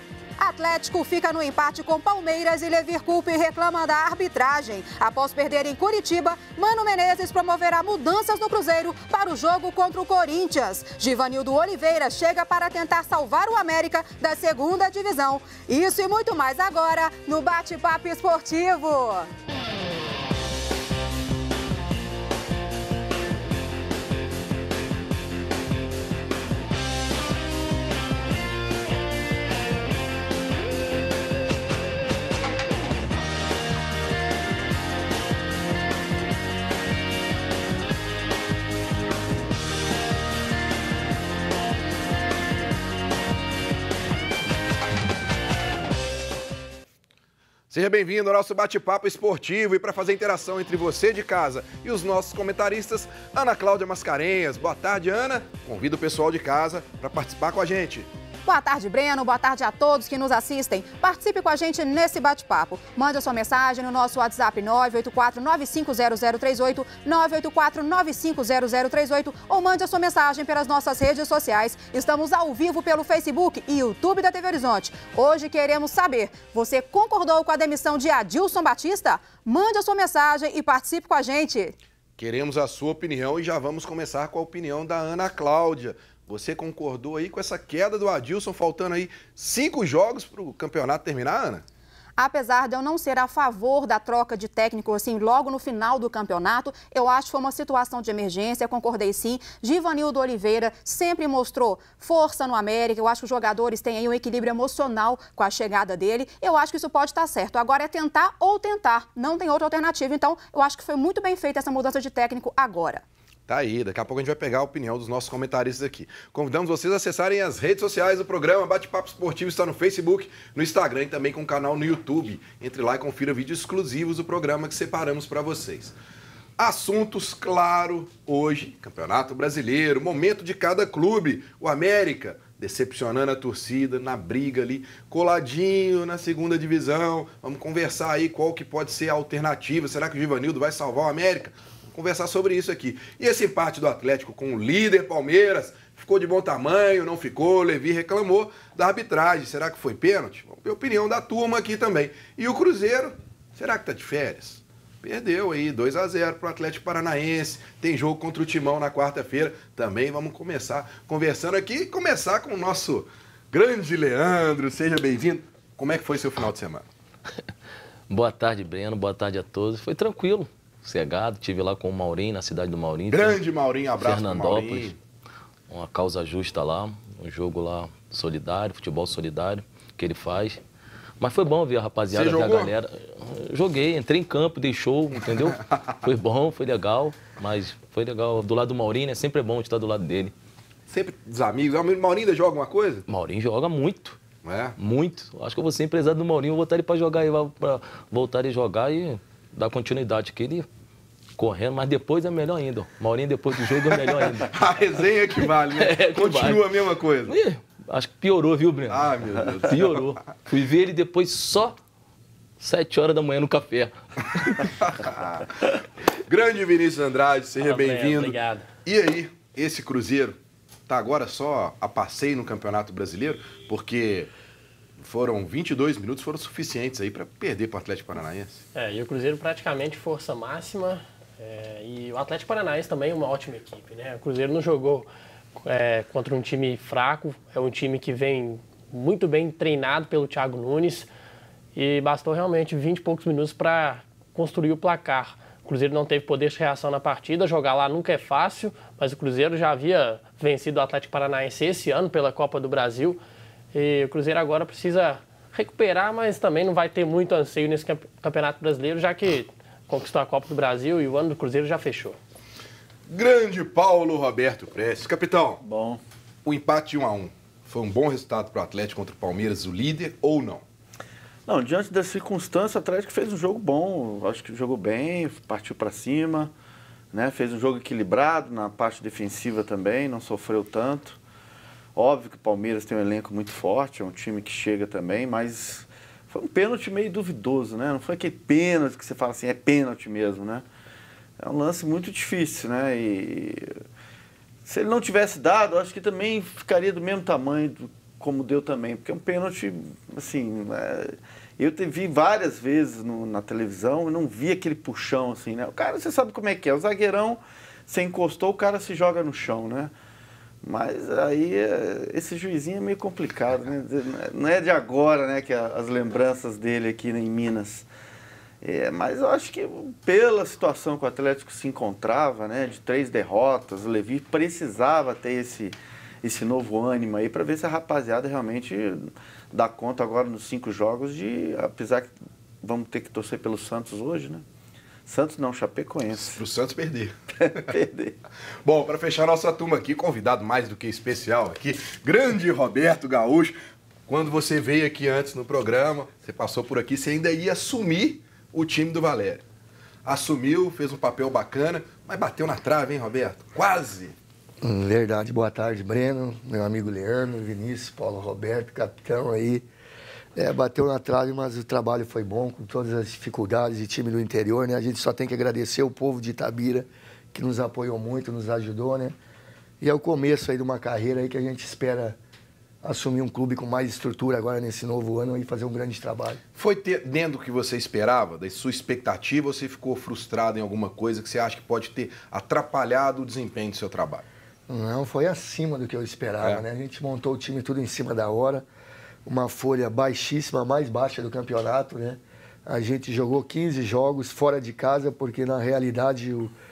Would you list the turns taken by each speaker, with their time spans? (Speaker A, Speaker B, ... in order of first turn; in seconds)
Speaker A: 0.4-19.3, 58.5-81.8, 92.2-113.0
Speaker B: 47.7-58.1, 82.2-91.6, 113.5-126.0, 126.6-166.9, 173.1-175.0, 182.1-182.7, 190.9-193.1, 194.4-194.8, 204.4-207.3, 208.9-209.8, 214.8-215.5, 216.3-220.4, 220.9-224.3, 225.0-228.6, 263.1-265.6, 266.4-270.6, 336.1-337.1, 338.6-343.6, 344.1-349.4, 350.1-354.1, 376.6-384.2
Speaker C: 168.1-173.4, 174.0-174.9, 175.7-180.6, 181.2-190.3, 193.1-194.2, 194.8-200.7, 201.4-204.6, 205.4-206.6, 207.3-211.8, 212.6-214.7
Speaker D: 217.6-218.7, 228.7-235.1, 235.6-241.1, 241.8-253.2, 253.7-262.2
Speaker E: 265.6-266.0, 271.5-276.5, 277.1-281.2, 281.9-290.6, 291.4-293.6, 294.6-309.9, 310.6-317.9, 318.6-329.0, 329.5-334.4, 335.1-336.4, 337.4-338.2
Speaker F: 354.6-359.7, 360.4-369.2, 369.8-372.2, 372.8-376.4, 384.7-388.6, 389.3-396.5